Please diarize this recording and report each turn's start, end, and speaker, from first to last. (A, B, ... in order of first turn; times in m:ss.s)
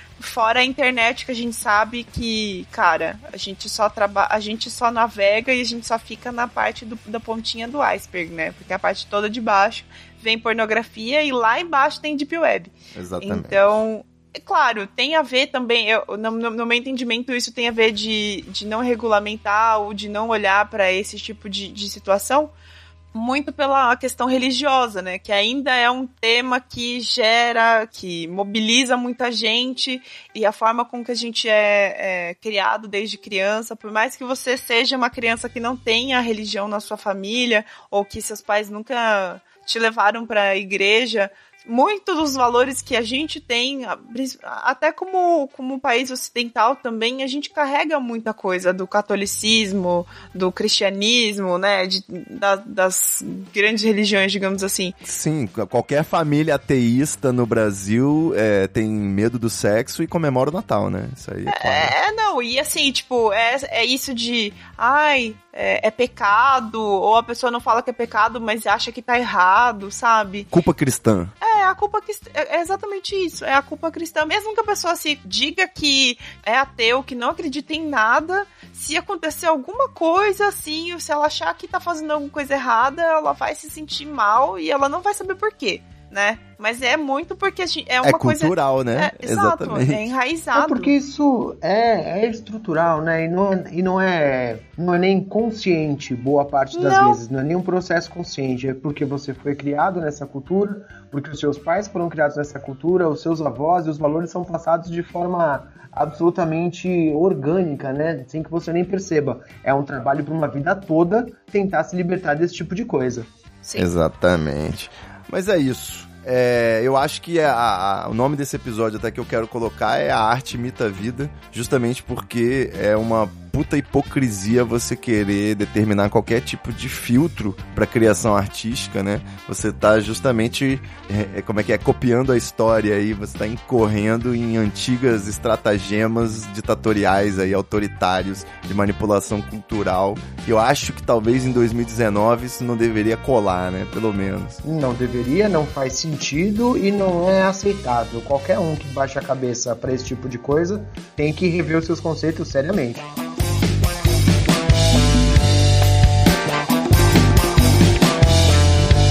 0:00.2-0:22.5 A
0:12.9-0:13.6 B
0:23.1-0:55.0 A
0:55.0-1:01.9 B
1:01.5-1:10.5 A
1:10.5-1:11.3 B
1:11.4-1:30.9 A
1:28.0-1:30.0 B
1:30.5-1:53.3 C
1:36.7-1:37.2 A
1:53.8-2:24.6 B
2:24.6-2:33.1 C